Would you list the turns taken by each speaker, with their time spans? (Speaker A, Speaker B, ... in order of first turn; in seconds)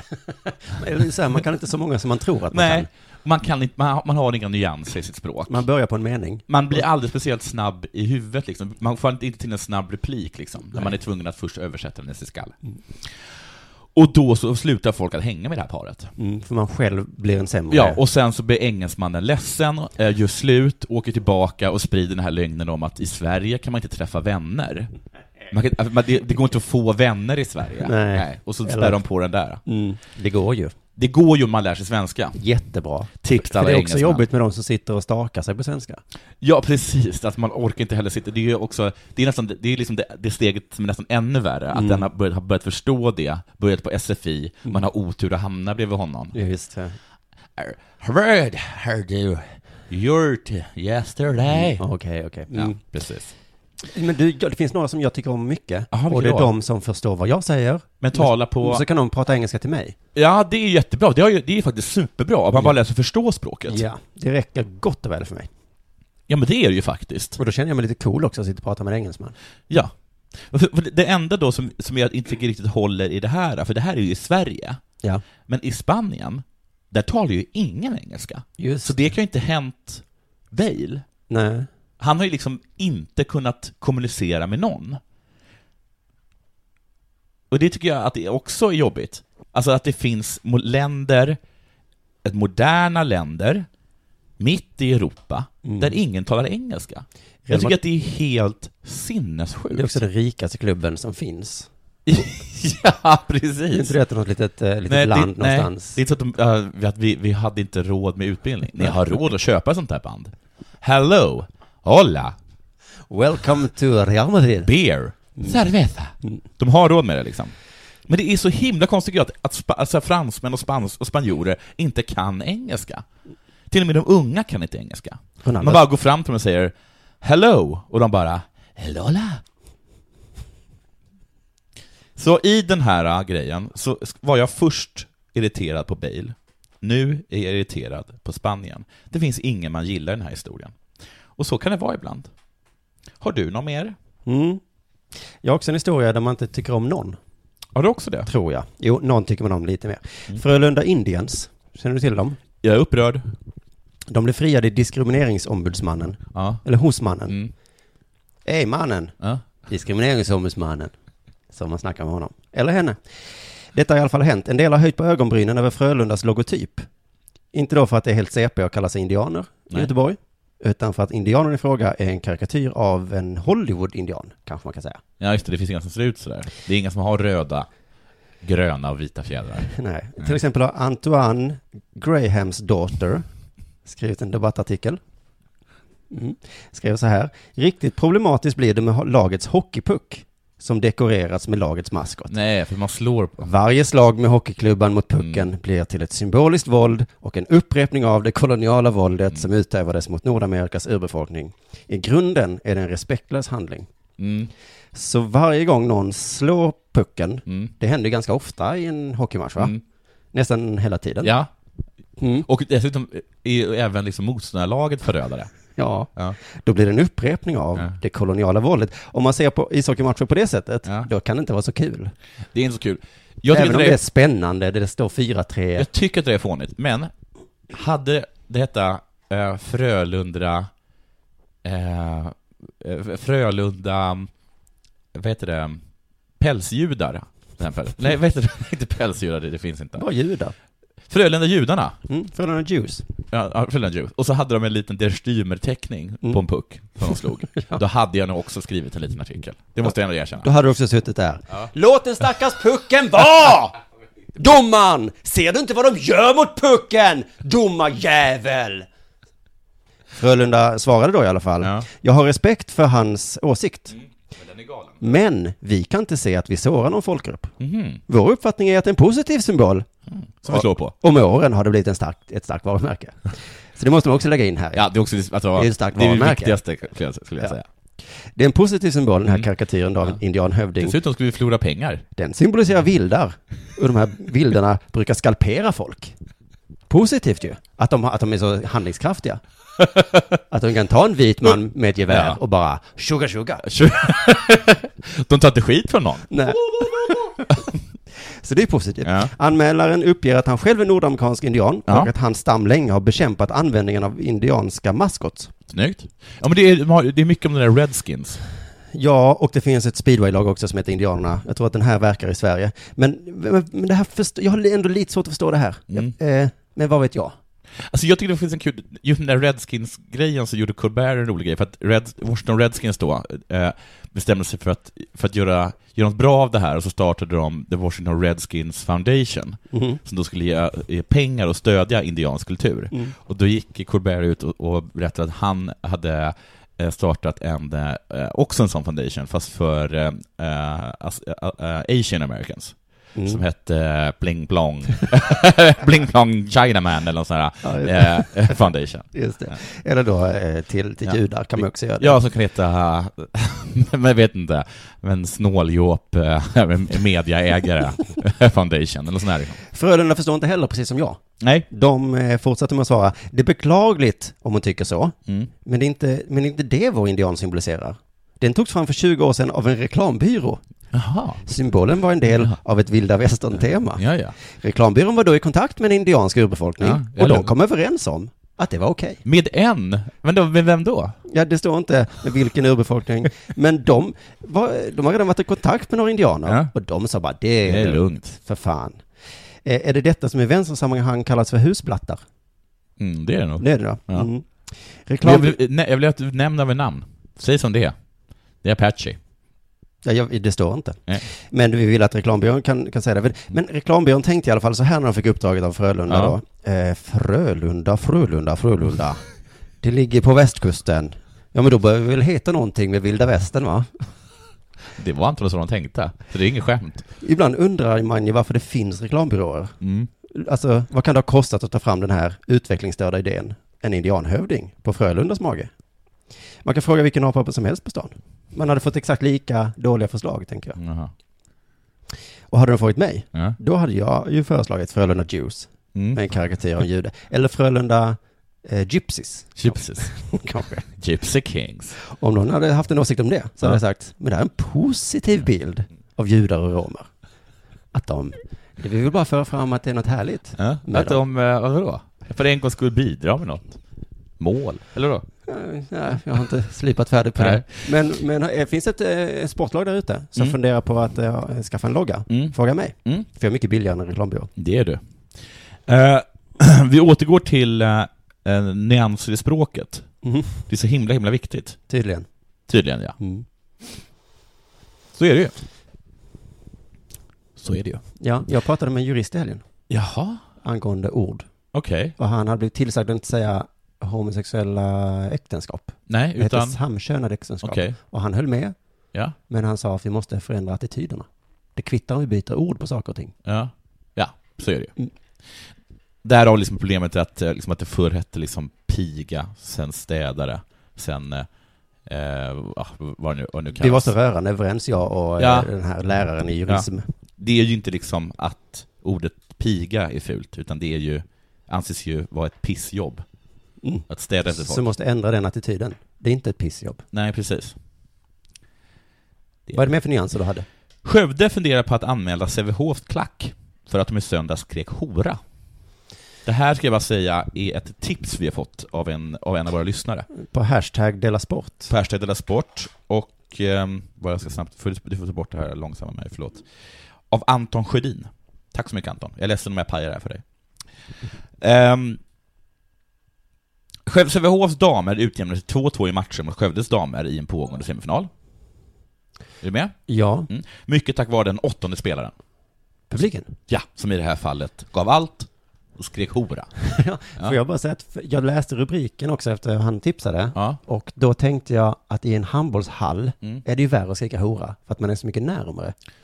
Speaker A: 0.7-2.9, 5.5-6.8, 16.2-18.0, 27.8-29.0, 29.6-30.7, 32.4-36.0, 41.7-42.1, 46.3-47.0, 51.5-52.8, 53.9-59.9, 63.7-65.5, 67.4-69.3, 78.6-78.9, 81.3-81.7, 95.6-96.0, 97.5-97.8, 99.7-101.7, 103.7-106.0, 113.1-114.7, 125.4-125.8, 144.2-144.6, 145.4-147.2, 148.2-152.4, 154.1-157.3, 158.4-159.1, 159.7-160.9, 161.5-163.0, 163.7-166.8, 167.5-175.0, 179.7-183.2, 183.8-185.0, 186.1-192.3, 193.4-203.9, 204.9-209.7, 210.3-211.3, 212.2-212.4, 215.8-222.1, 223.5-225.9, 240.0-240.5, 242.1-243.0, 250.4-253.8, 254.3-258.9, 260.1-264.0, 265.0-267.5, 268.1-269.9, 270.5-274.8, 275.6-276.6, 278.4-280.9, 282.1-286.1, 286.9-289.4, 290.5-293.6, 296.3-297.4, 298.4-305.5, 308.9-317.3, 329.7-330.0, 343.1-343.4, 347.6-352.2, 359.7-370.6, 371.4-379.2, 381.3-389.0, 389.6-392.2, 393.6-394.5, 395.0-395.6, 400.0-409.2, 409.8-414.0, 417.2-419.7, 420.3-425.7, 426.6-430.8, 432.5-440.9, 442.1-447.1, 447.9-451.2, 455.5-464.5, 470.2-470.5, 471.9-472.3, 473.2-473.4, 478.2-479.6, 480.6-481.5, 482.2-488.8, 489.5-493.3, 503.8-507.1, 513.8-517.0, 519.7-520.6, 530.3-531.9, 550.1-550.5, 553.1-553.5, 556.9-565.9
Speaker B: 2.5-5.6, 6.5-13.1, 13.9-16.1, 17.7-24.9, 25.5-29.6, 30.9-32.4, 33.2-34.2, 36.4-46.3, 47.6-51.8, 52.5-53.3, 55.9-56.5, 58.0-58.8, 60.1-63.8, 66.3-67.4, 69.7-74.8, 75.5-81.0, 82.0-85.0, 87.5-91.4, 92.2-93.7, 94.4-100.0, 102.0-103.9, 104.9-112.3, 114.6-117.5, 118.1-123.0, 123.7-129.4, 132.2-140.8, 141.4-142.3, 143.2-143.9, 147.7-148.3, 152.6-153.3, 156.3-156.6, 157.3-157.5, 175.2-177.7, 178.4-180.3, 192.3-193.5, 195.2-195.4, 204.2-204.5, 207.4-207.7, 211.2-211.5, 212.4-215.5, 222.5-224.0, 225.8-227.1, 227.7-230.7, 231.6-234.3, 235.1-235.8, 236.4-240.0, 241.1-242.0, 243.3-250.5, 261.6-261.9, 264.4-265.0, 267.6-268.0, 270.1-270.9, 274.7-277.6, 280.8-282.0, 292.1-292.4, 293.6-297.1, 299.0-299.3, 305.7-308.4, 315.9-316.1, 317.8-349.5, 352.0-359.6, 361.4-361.7, 370.9-371.4, 372.2-372.6, 373.9-374.3, 376.8-377.5, 379.2-381.2, 386.4-386.7, 387.6-388.4, 393.0-394.3, 395.2-397.9, 398.6-399.2, 406.1-406.4, 414.9-417.1, 419.8-420.1, 430.8-431.1, 435.9-436.2, 439.6-440.1, 440.9-441.9, 450.6-453.8, 454.4-455.2, 457.4-457.7, 462.3-463.2, 464.6-465.0, 465.9-471.8, 472.7-473.2, 475.1-475.5, 477.6-478.0, 479.9-480.4, 481.7-482.1, 486.1-486.8, 487.6-487.9, 493.4-494.9, 496.2-501.5, 502.0-504.1, 505.4-505.7, 507.4-513.2, 514.1-514.8, 517.1-517.8, 521.0-525.4, 526.4-530.3, 531.9-536.6, 537.3-540.4, 541.6-542.2, 544.0-548.3, 549.6-552.3, 553.7-556.7